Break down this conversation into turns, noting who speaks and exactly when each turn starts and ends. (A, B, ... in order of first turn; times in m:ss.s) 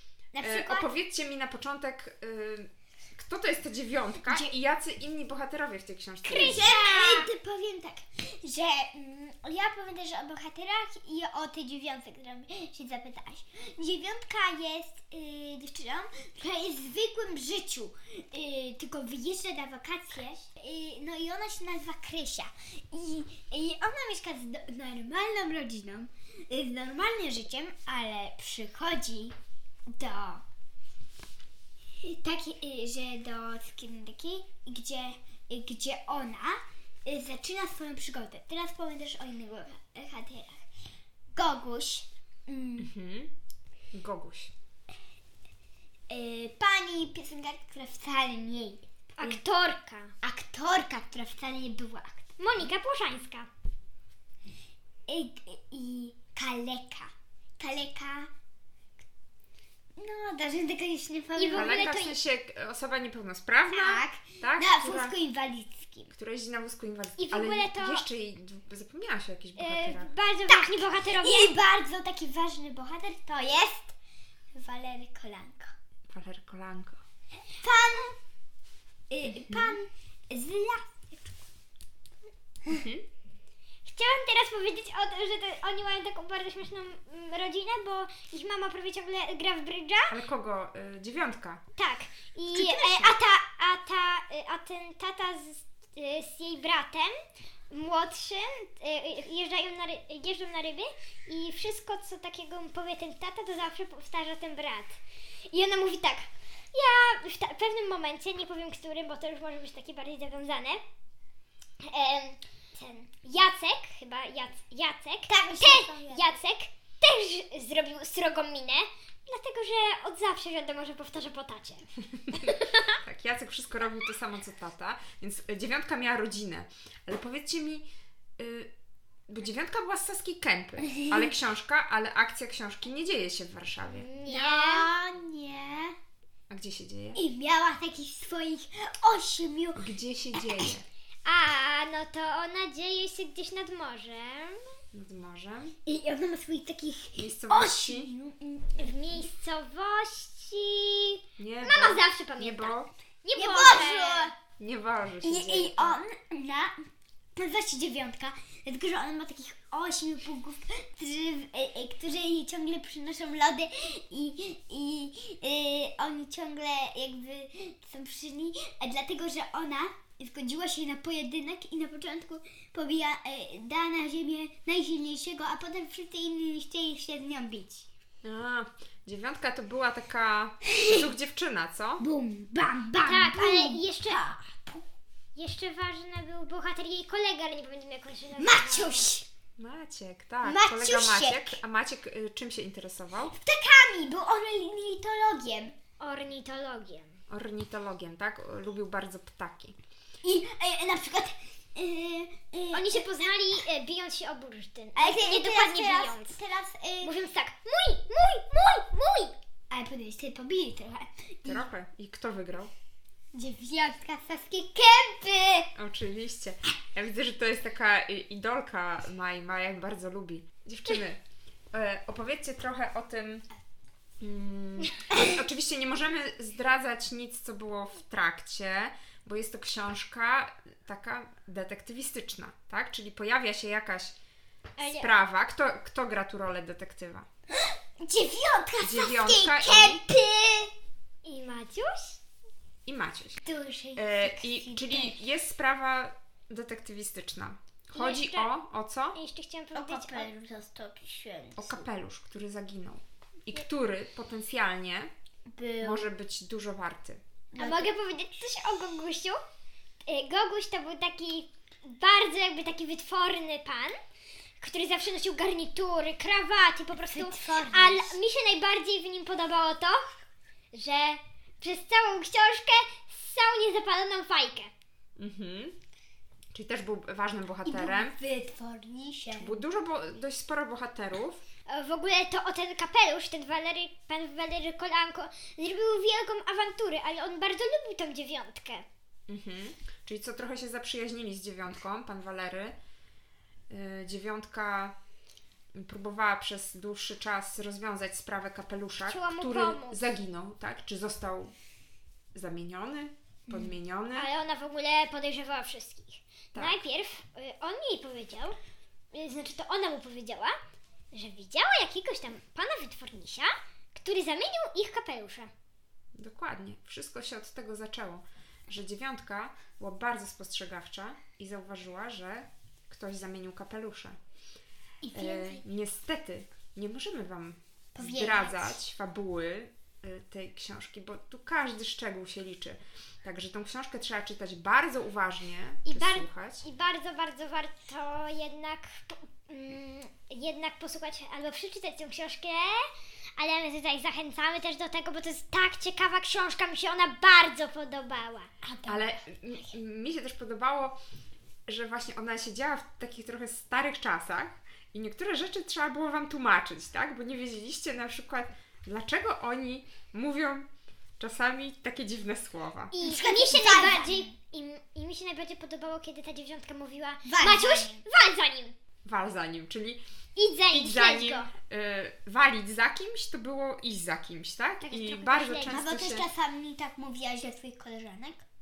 0:00.3-0:00.9 A
0:00.4-0:06.7 B
0:06.2-0:07.3 C
0:06.4-0:29.4 A
0:29.9-0:30.4 A
0:32.0-0:40.6 A
0:41.4-0:42.9 A
0:42.8-0:43.3 B
0:43.9-0:44.5 B
0:46.1-0:49.4 A
0:49.2-0:50.1 C
0:50.2-0:52.3 A
0:52.4-0:53.5 C
0:55.1-0:58.3 A
1:00.0-1:01.8 A
1:01.4-1:02.2 C
1:01.5-1:05.2 B
1:03.7-1:06.1 A
1:06.1-1:10.1 B
1:07.2-1:08.1 C
1:09.6-1:11.5 C
1:10.5-1:13.9 A
1:14.5-1:15.7 A
1:16.1-1:17.0 B
1:17.6-1:18.2 A
1:19.1-1:21.4 A
1:19.2-1:19.8 B
1:22.7-1:23.0 B
1:23.8-1:30.2 C
1:30.1-1:31.6 B
1:31.8-1:37.2 C
1:32.5-1:33.2 A
1:37.7-1:50.8 C
1:51.8-2:02.8 C
1:55.3-1:56.4 A
2:03.0-2:07.9 B
2:08.4-2:08.7 B
2:09.3-2:14.1 B
2:13.9-2:14.9 C
2:14.3-2:16.0 A
2:16.5-2:17.2 B
2:17.2-2:19.8 A
2:19.8-2:20.9 B
2:20.4-2:20.7 A
2:21.2-2:24.6 C
2:24.9-2:25.8 B
2:25.8-2:29.3 A
2:27.2-2:28.1 B
2:28.8-2:34.3 C
2:31.4-2:32.9 B
2:33.3-2:34.3 A
2:34.6-2:36.0 B
2:35.2-2:36.8 A
2:37.4-2:57.8 A
2:58.2-3:02.0 B
3:00.8-3:01.0 A
3:02.0-3:04.8 A
3:03.0-3:04.2 C
3:05.4-3:09.1 C
3:08.4-3:09.2 A
3:09.6-3:13.4 B
3:10.4-3:11.6 A
3:13.4-3:15.8 A
3:16.0-3:17.1 C
3:17.3-3:19.8 B
3:20.2-3:23.0 A
3:22.7-3:26.4 C
3:25.0-3:27.2 A
3:27.0-3:29.4 C
3:29.7-3:31.7 A
3:31.4-3:32.7 B
3:33.3-3:35.7 A
3:35.8-3:41.2 B
3:41.7-3:43.5 B
3:44.2-3:54.2 B
3:54.8-3:55.1 C
3:54.9-3:57.3 B
3:58.0-4:00.7 A
3:58.8-4:00.0 B
4:01.2-4:02.2 C
4:02.9-4:03.4 B
4:03.4-4:05.2 A
4:04.0-4:09.2 B
4:07.9-4:08.5 C
4:09.1-4:10.3 C
4:09.7-4:11.9 A
4:11.6-4:15.1 B
4:15.5-4:16.1 A
4:15.8-4:17.2 B
4:17.5-4:18.0 A
4:17.6-4:19.4 C
4:20.1-4:24.0 C
4:24.6-4:30.1 C
4:27.1-4:28.2 A
4:30.7-4:34.7 C
4:35.2-4:35.8 B
4:36.5-4:38.2 B
4:37.6-4:39.6 A
4:39.4-4:41.4 B
4:41.7-4:48.8 C
4:49.3-4:52.8 B
4:53.7-4:55.0 B
4:55.8-5:01.5 B
4:59.1-5:00.0 C
5:02.4-5:04.3 B
5:03.5-5:03.8 A
5:04.2-5:08.6 C
5:06.5-5:06.8 B
5:09.1-5:10.6 C
5:11.1-5:15.5 C
5:16.2-5:24.2 B
5:25.0-5:25.6 A
5:25.1-5:36.6 B
5:28.0-5:28.8 A
5:35.9-5:48.5 C
5:48.6-5:49.7 A
5:48.8-5:51.0 B
5:51.7-6:00.7 B
6:01.2-6:02.9 B
6:02.9-6:08.8 C
6:03.0-6:04.3 A
6:07.3-6:08.0 A
6:09.0-6:10.0 B
6:10.4-6:11.5 C
6:10.7-6:16.3 B
6:14.8-6:15.8 C
6:15.7-6:18.4 A